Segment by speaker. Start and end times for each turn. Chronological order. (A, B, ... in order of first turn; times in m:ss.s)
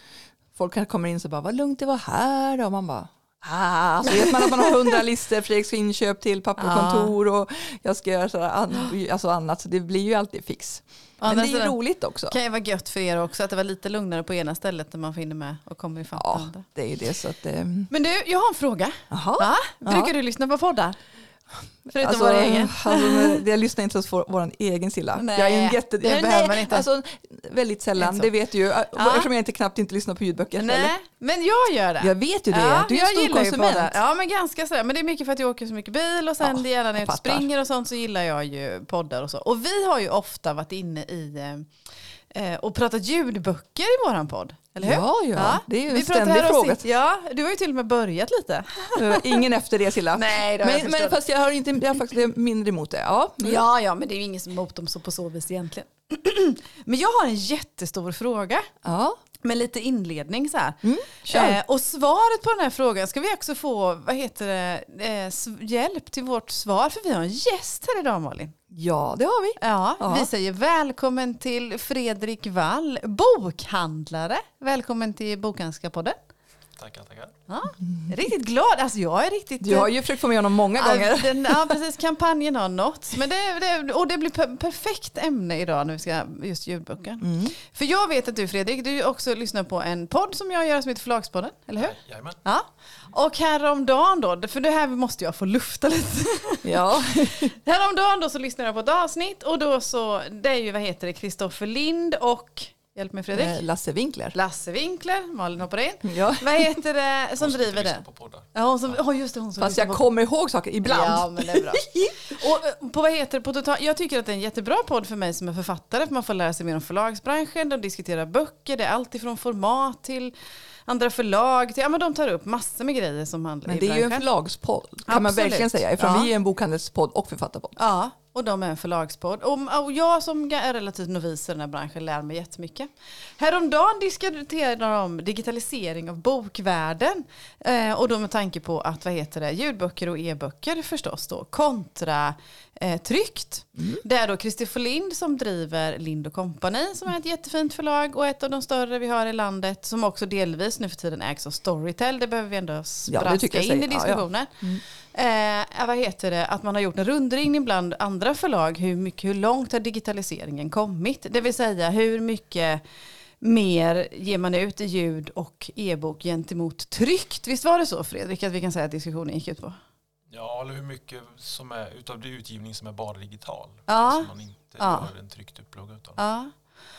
0:00.5-0:12.4 A
0:04.1-0:05.0 B
0:06.6-0:07.1 B
0:11.2-0:11.8 B
0:12.3-0:16.6 B
0:16.2-0:17.9 A
0:17.9-0:21.0 B
0:19.1-0:20.1 A
0:21.8-0:30.9 A
0:21.9-0:23.4 B
0:25.2-0:26.8 B
0:28.0-0:28.3 B
0:28.9-0:29.3 B
0:30.6-0:41.7 B
0:32.0-0:34.0 A
0:36.4-0:37.5 A
0:42.3-0:49.4 B
0:44.8-0:46.8 A
0:48.9-0:53.6 A
0:50.1-0:51.2 B
0:53.4-0:58.7 B
0:58.8-0:59.2 A
0:59.4-1:08.5 B
1:00.8-1:01.6 A
1:08.7-1:10.3 A
1:09.6-1:16.2 B
1:16.8-1:17.3 C
1:17.5-1:19.9 B
1:17.8-1:18.1 A
1:19.6-1:21.8 A
1:20.8-1:43.6 B
1:27.2-1:27.6 A
1:31.8-1:32.4 C
1:36.6-1:37.5 A
1:43.3-1:44.4 A
1:44.3-1:48.0 B
1:46.0-1:46.8 A
1:47.4-1:49.0 C
1:48.5-1:50.0 B
1:49.6-1:52.4 A
1:50.8-2:00.3 B
2:00.8-2:04.2 B
2:03.7-2:07.8 A
2:05.1-2:06.3 B
2:07.8-2:34.6 B
2:23.8-2:24.0 A
2:33.1-2:34.8 A
2:35.1-2:42.8 B
2:43.4-2:49.8 B
2:50.3-2:56.2 C
2:53.9-2:55.1 B
2:56.2-2:56.5 B